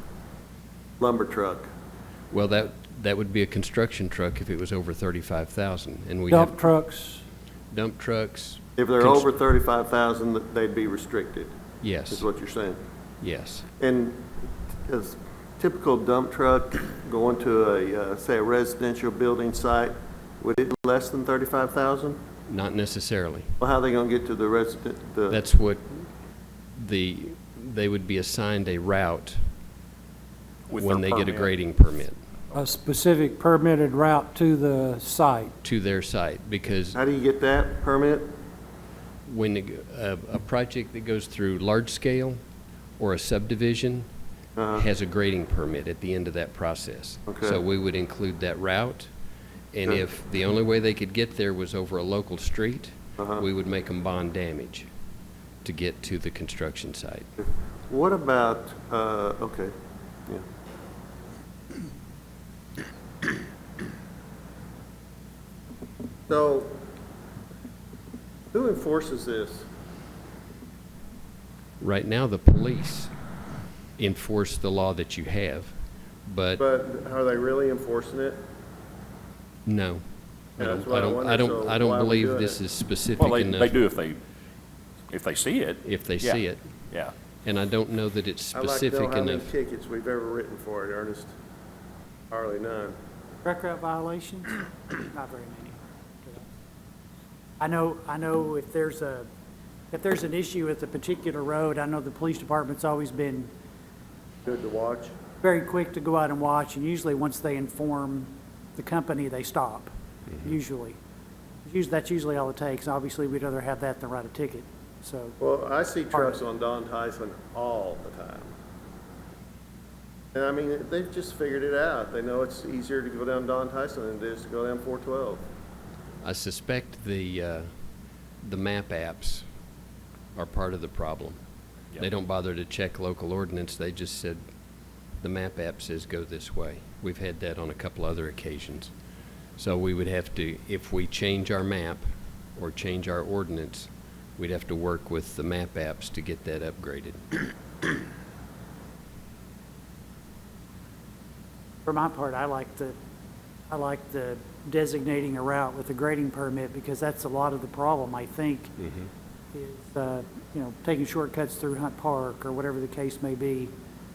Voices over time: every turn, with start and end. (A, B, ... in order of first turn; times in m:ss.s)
0:01.0-0:01.7 A
0:02.3-0:06.6 B
0:06.3-0:07.2 C
0:07.7-0:09.3 B
0:08.8-0:11.5 A
0:11.8-0:12.2 B
0:12.1-0:12.8 A
0:13.2-0:13.7 B
0:13.8-0:14.3 A
0:14.8-0:22.2 A
0:22.5-0:23.5 B
0:23.6-0:25.4 A
0:25.3-0:26.1 B
0:26.8-0:29.4 B
0:30.7-0:31.5 D
0:30.8-0:32.2 B
0:32.6-0:35.5 C
0:35.6-0:37.0 B
0:37.0-0:38.3 A
0:39.3-0:42.4 B
0:43.0-0:44.1 B
0:44.6-0:44.8 A
0:44.7-0:49.1 B
0:47.3-0:47.6 A
0:49.7-0:54.9 B
0:53.2-0:53.4 A
0:55.6-0:57.3 B
0:57.9-0:59.7 A
1:06.3-1:06.8 A
1:08.5-1:09.7 A
1:11.8-1:13.1 B
1:14.0-1:16.6 B
1:16.6-1:18.4 A
1:19.7-1:20.0 B
1:20.6-1:23.8 B
1:20.6-1:22.6 A
1:23.2-1:24.2 D
1:25.1-1:27.1 D
1:25.8-1:26.6 B
1:27.4-1:29.5 B
1:28.6-1:31.3 A
1:32.3-1:33.0 A
1:33.4-1:36.5 E
1:37.6-1:39.3 E
1:39.9-1:43.5 E
1:44.4-1:45.2 A
1:45.4-1:51.0 E
1:51.6-1:55.4 E
1:55.4-1:58.5 A
1:56.1-1:56.4 E
2:00.3-2:05.4 A
2:06.2-2:07.7 B
2:08.4-2:09.4 B
2:10.4-2:11.4 B
2:12.0-2:14.4 B
2:15.2-2:18.9 B
2:19.6-2:27.4 B
2:31.8-2:33.0 E
2:33.7-2:38.7 E
2:38.8-2:39.1 B
2:39.5-2:43.7 E